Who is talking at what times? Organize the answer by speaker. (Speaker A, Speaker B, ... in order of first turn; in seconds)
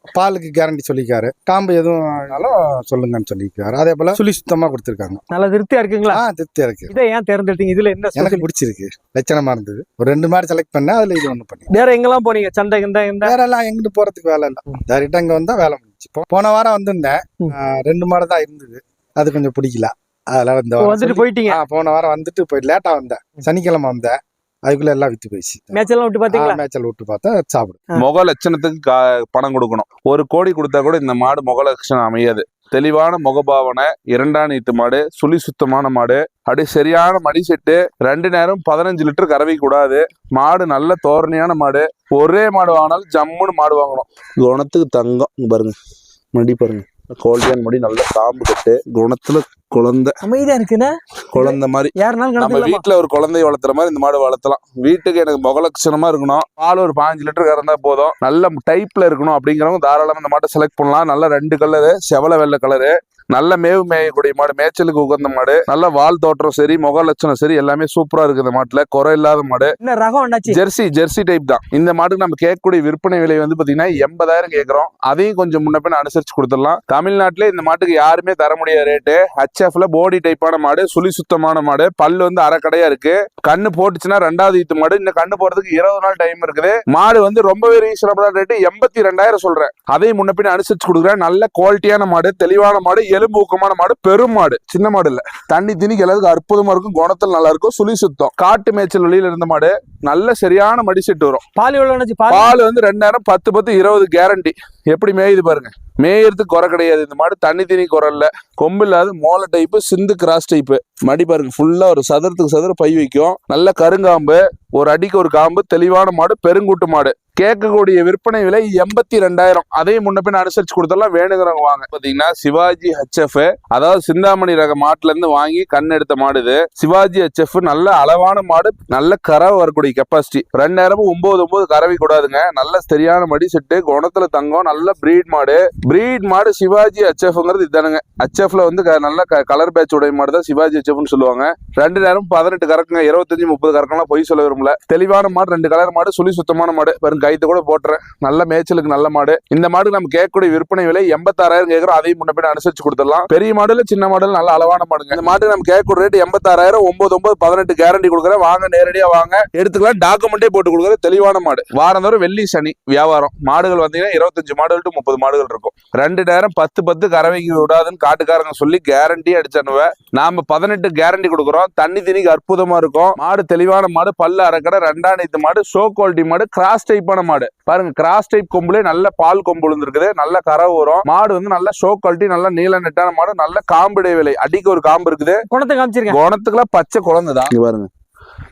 Speaker A: 0.1-5.2, 6.1-6.9, 8.2-11.7, 13.2-27.8
Speaker B: 5.3-6.2, 6.9-8.4, 11.7-13.3, 20.8-21.6, 25.7-26.6, 50.2-52.8, 69.8-70.6, 101.6-102.5, 185.5-186.2
Speaker C: 28.0-45.8, 46.4-50.1, 51.4-69.8, 70.5-101.4, 102.3-185.4, 186.1-187.9